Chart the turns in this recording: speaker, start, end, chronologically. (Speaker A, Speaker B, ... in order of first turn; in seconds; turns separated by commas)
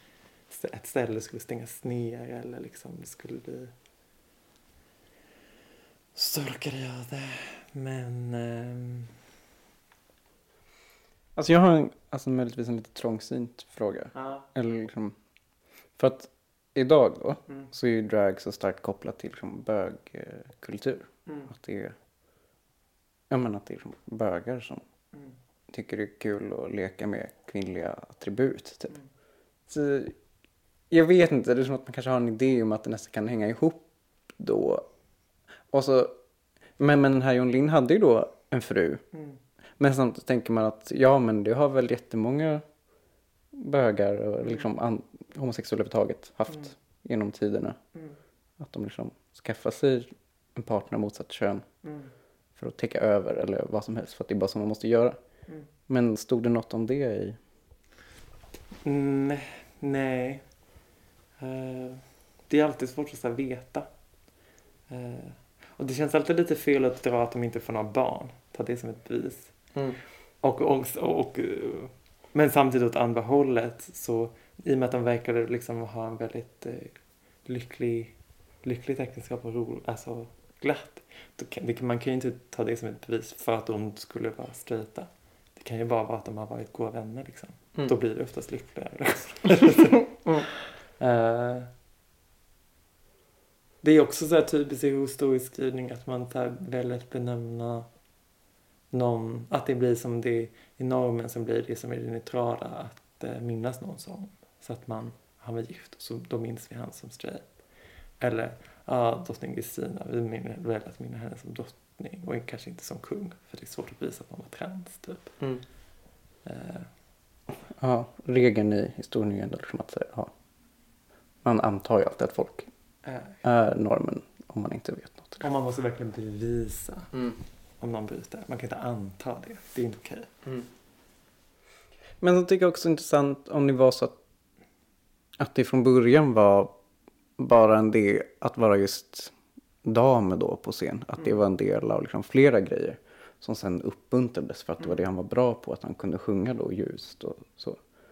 Speaker A: 0.5-3.7, Speaker A: 6.1-9.1, Speaker B: 11.3-15.1, Speaker A: 14.1-14.4, Speaker B: 15.9-21.9, Speaker B: 23.3-24.8, Speaker B: 25.7-29.0, Speaker B: 29.7-30.2, Speaker B: 30.9-34.9, Speaker B: 35.7-36.2, Speaker B: 36.8-39.0, Speaker A: 39.1-39.4, Speaker B: 39.8-42.6, Speaker B: 43.5-47.8, Speaker B: 48.6-51.7, Speaker A: 51.8-52.1, Speaker B: 52.5-55.2, Speaker B: 55.8-57.4, Speaker A: 58.8-60.5, Speaker A: 61.4-63.9, Speaker A: 64.9-69.7, Speaker A: 70.4-91.7, Speaker A: 93.8-97.9, Speaker A: 98.9-107.5, Speaker A: 108.2-115.4, Speaker A: 116.4-116.9, Speaker B: 117.7-120.3, Speaker B: 121.4-122.7, Speaker A: 123.0-123.3, Speaker B: 123.4-125.5, Speaker A: 125.4-127.2, Speaker A: 127.8-130.3, Speaker B: 132.2-134.2, Speaker B: 135.4-136.7, Speaker B: 137.4-147.8